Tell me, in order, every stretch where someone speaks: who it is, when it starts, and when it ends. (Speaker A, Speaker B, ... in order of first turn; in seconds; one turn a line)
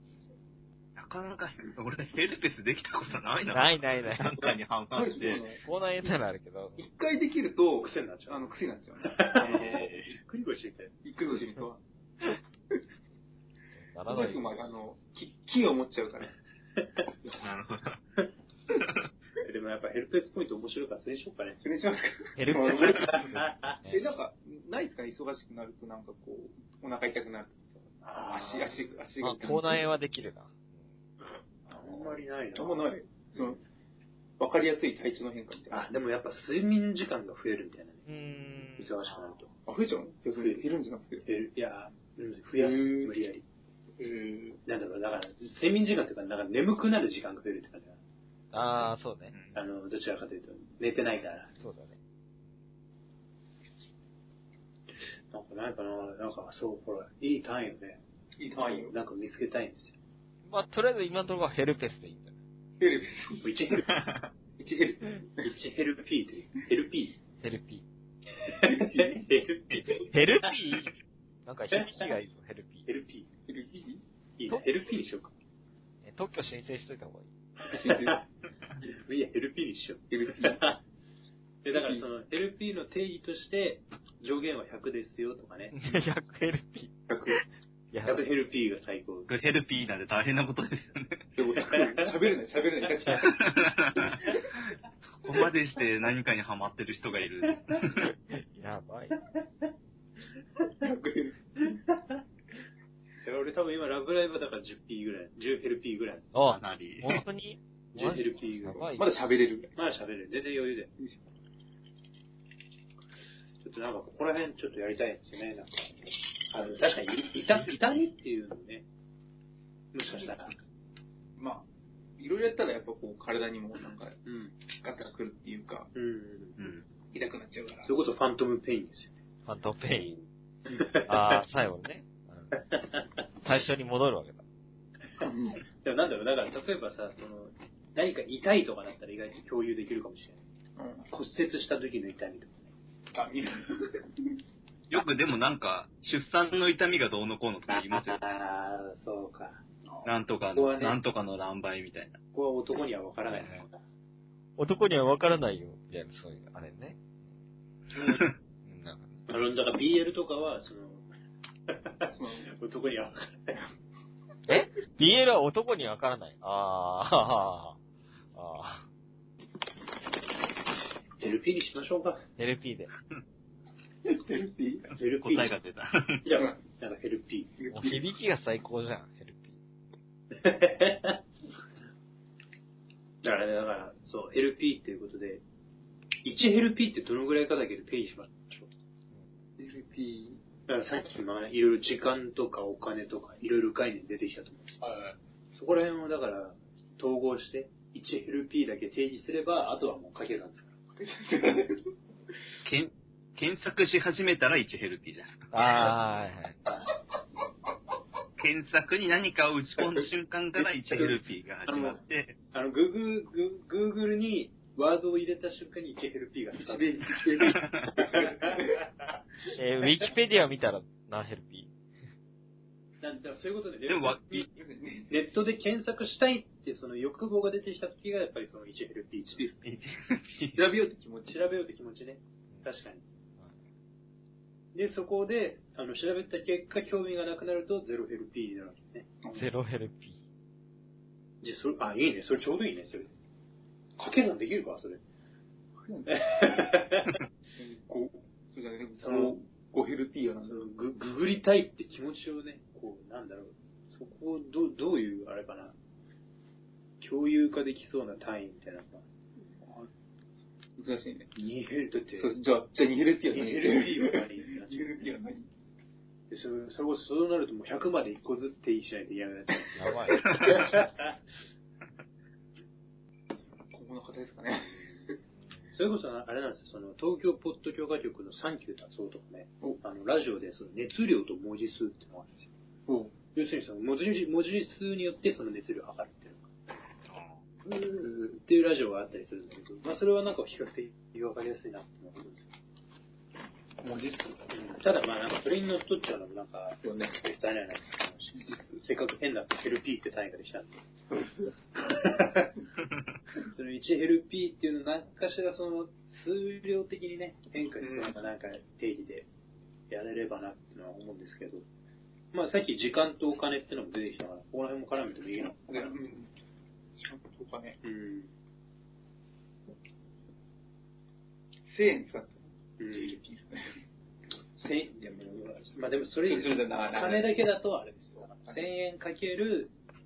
Speaker A: 1.0-5.5
Speaker B: 3.5-4.5
Speaker C: 4.9-5.6
Speaker B: 5.5-6.8
Speaker C: 6.8-9.9
Speaker D: 7.8-10.9
Speaker A: 9.3-10.1
Speaker C: 11.0-11.8
Speaker B: 13.7-14.6
Speaker C: 14.1-16.3
Speaker A: 17.4-18.0
Speaker D: 19.4-21.6
Speaker C: 21.6-23.3
Speaker B: 22.4-24.1
Speaker D: 22.7-23.8
Speaker C: 23.9-29.9
Speaker D: 28.0-28.9
Speaker B: 29.2-30.7
Speaker D: 31.7-33.6
Speaker C: 32.5-33.6
Speaker C: 34.4-35.9
Speaker D: 35.7-38.1
Speaker B: 38.1-39.4
Speaker D: 38.8-39.5
Speaker C: 39.6-41.3
Speaker D: 40.4-40.6
Speaker D: 41.2-43.4
Speaker C: 42.6-43.1
Speaker C: 44.0-44.6
Speaker D: 44.7-48.0
Speaker B: 48.5-49.4
Speaker A: 49.3-49.6
Speaker D: 49.5-51.5
Speaker B: 51.6-52.0
Speaker D: 55.3-58.0
Speaker C: 58.4-59.0
Speaker D: 58.5-59.9
Speaker B: 60.5-62.3
Speaker C: 62.8-63.5
Speaker D: 63.4-63.9
Speaker C: 64.6-65.5
Speaker D: 65.4-67.2
Speaker B: 67.4-67.8
Speaker D: 68.4-70.5
Speaker C: 68.6-69.2
Speaker B: 69.7-70.9
Speaker B: 71.5-72.9
Speaker D: 71.7-72.1
Speaker D: 72.9-73.3
Speaker C: 73.5-74.0
Speaker D: 74.4-75.3
Speaker B: 76.0-77.3
Speaker C: 77.7-78.2
Speaker D: 77.7-78.2
Speaker D: 78.8-80.8
Speaker C: 80.1-80.7
Speaker D: 81.6-86.0
Speaker C: 81.7-82.1
Speaker B: 85.7-88.2
Speaker C: 87.1-87.4
Speaker D: 88.0-89.3
Speaker A: 89.3-91.2
Speaker C: 91.4-93.4
Speaker A: 93.1-94.3
Speaker A: 95.2-98.1
Speaker B: 98.0-99.2
Speaker C: 100.8-101.8
Speaker D: 103.2-106.3
Speaker B: 106.3-109.1
Speaker A: 106.4-107.2
Speaker D: 107.9-108.9
Speaker C: 109.0-109.7
Speaker D: 109.8-110.9
Speaker D: 113.6-118.8
Speaker D: 119.9-120.5
Speaker C: 121.4-121.7
Speaker C: 122.2-124.2
Speaker D: 124.3-124.5
Speaker C: 124.7-125.9
Speaker D: 125.9-126.6
Speaker A: 126.6-126.8
Speaker C: 127.1-127.9
Speaker D: 127.8-129.2
Speaker B: 129.5-130.2
Speaker D: 130.7-131.4
Speaker B: 131.1-132.7
Speaker D: 132.7-133.1
Speaker B: 133.4-134.4
Speaker C: 135.2-135.6
Speaker D: 135.8-140.4
Speaker C: 140.8-141.1
Speaker D: 141.1-142.7
Speaker C: 143.1-144.3
Speaker A: 144.9-148.2
Speaker D: 147.7-149.6
Speaker A: 150.1-152.2
Speaker D: 150.5-151.0
Speaker D: 152.3-153.8
Speaker B: 153.3-153.7
Speaker B: 154.6-157.0
Speaker A: 158.0-158.3
Speaker B: 158.7-159.3
Speaker D: 159.3-161.1
Speaker D: 161.7-163.6
Speaker C: 162.1-162.5
Speaker B: 164.5-167.8
Speaker B: 168.3-168.9
Speaker D: 171.2-172.2
Speaker B: 172.4-172.9
Speaker C: 174.1-174.9
Speaker D: 175.0-175.5
Speaker A: 175.2-176.2
Speaker D: 176.2-177.5
Speaker C: 177.6-178.1
Speaker B: 177.7-179.6
Speaker D: 180.4-181.2
Speaker D: 183.2-185.4
Speaker D: 186.2-188.7
Speaker C: 189.6-190.4
Speaker D: 190.7-194.9
Speaker C: 194.8-195.1
Speaker D: 195.5-200.8
Speaker C: 201.0-201.8
Speaker A: 202.6-205.9
Speaker B: 205.5-206.6
Speaker A: 208.4-212.4
Speaker C: 211.7-212.0
Speaker D: 211.7-212.0
Speaker D: 212.5-217.1
Speaker C: 216.5-218.8
Speaker A: 217.4-217.9
Speaker D: 218.0-218.9
Speaker B: 219.5-221.7
Speaker D: 223.0-224.5
Speaker A: 223.9-224.5
Speaker C: 224.5-225.3
Speaker D: 225.1-229.5
Speaker C: 229.3-229.7
Speaker A: 230.0-230.6
Speaker C: 230.5-231.5
Speaker D: 231.3-233.0
Speaker D: 234.7-239.1
Speaker C: 239.2-239.5
Speaker B: 239.3-240.2
Speaker D: 241.4-243.1
Speaker D: 244.0-245.0
Speaker C: 245.8-246.5
Speaker D: 246.1-247.2
Speaker C: 247.6-250.7
Speaker D: 249.0-249.4
Speaker D: 250.4-255.8
Speaker D: 257.0-259.1
Speaker C: 259.6-259.9
Speaker C: 260.8-261.3
Speaker D: 261.4-262.3
Speaker C: 262.2-265.5
Speaker D: 263.3-265.1
Speaker D: 266.3-271.1
Speaker B: 269.8-270.2
Speaker C: 273.7-275.1
Speaker D: 275.7-282.5
Speaker C: 282.9-283.1
Speaker D: 283.3-286.5
Speaker A: 287.1-287.4
Speaker C: 287.6-288.4
Speaker D: 288.4-292.5
Speaker C: 293.8-294.5
Speaker D: 294.5-300.8
Speaker C: 296.8-297.2
Speaker C: 298.4-298.8
Speaker C: 301.1-301.5
Speaker D: 301.8-302.5
Speaker D: 303.5-309.3
Speaker C: 307.8-308.2
Speaker D: 309.9-311.6
Speaker D: 312.3-315.9
Speaker C: 315.7-316.3
Speaker C: 317.0-317.8
Speaker D: 317.8-318.3
Speaker C: 321.7-323.7
Speaker D: 322.8-323.2
Speaker D: 324.6-329.7
Speaker C: 326.2-327.4
Speaker C: 328.2-328.7